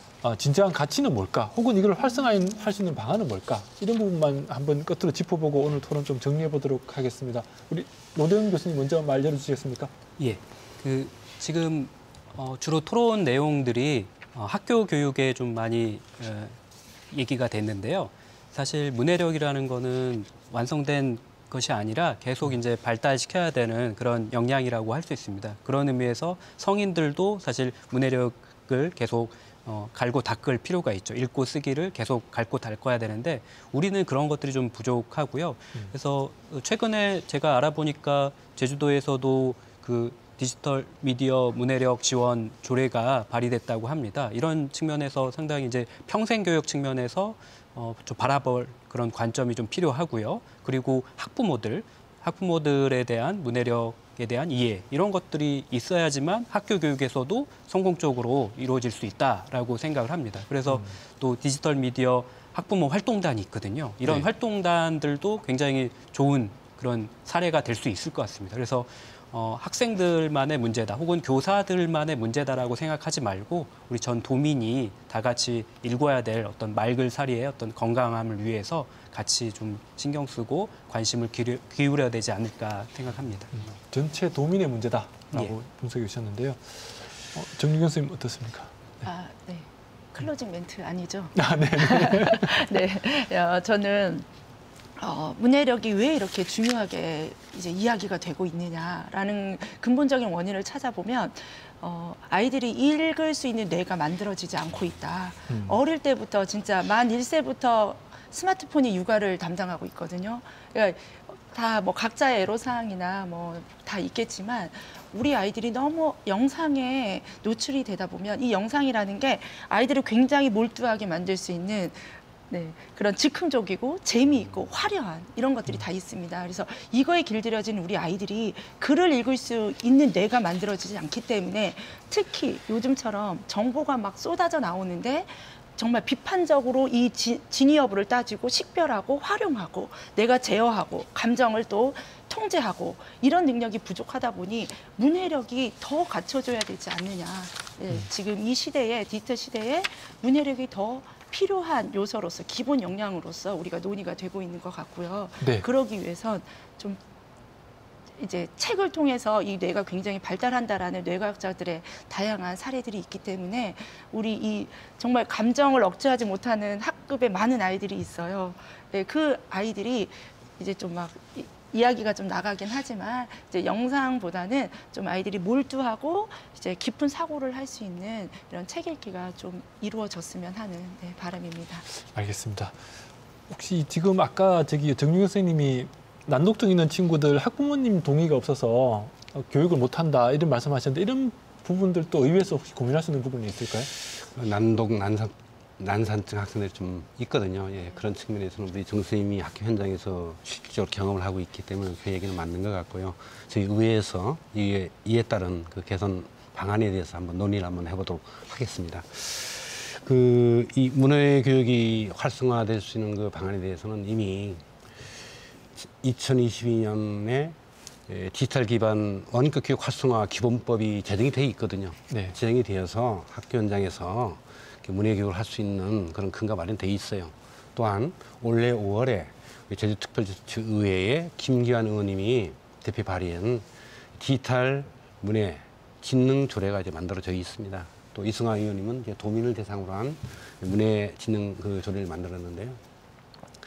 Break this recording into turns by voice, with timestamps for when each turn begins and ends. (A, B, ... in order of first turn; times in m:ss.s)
0:00.2-0:09.9 A
0:10.2-0:16.6 B
0:17.1-1:23.5 B
1:23.6-1:28.7 A
1:29.0-1:34.3 C
1:31.4-1:32.6 A
1:35.0-2:37.0 C
1:45.5-1:45.8 A
2:35.4-2:35.7 A
2:38.2-3:01.9 C
3:02.1-3:02.8 A
3:03.5-3:13.9 A
3:14.2-3:34.6 D
3:35.8-3:37.6 D
3:38.1-3:53.6 D
3:42.1-3:42.4 A
3:54.2-4:02.8 D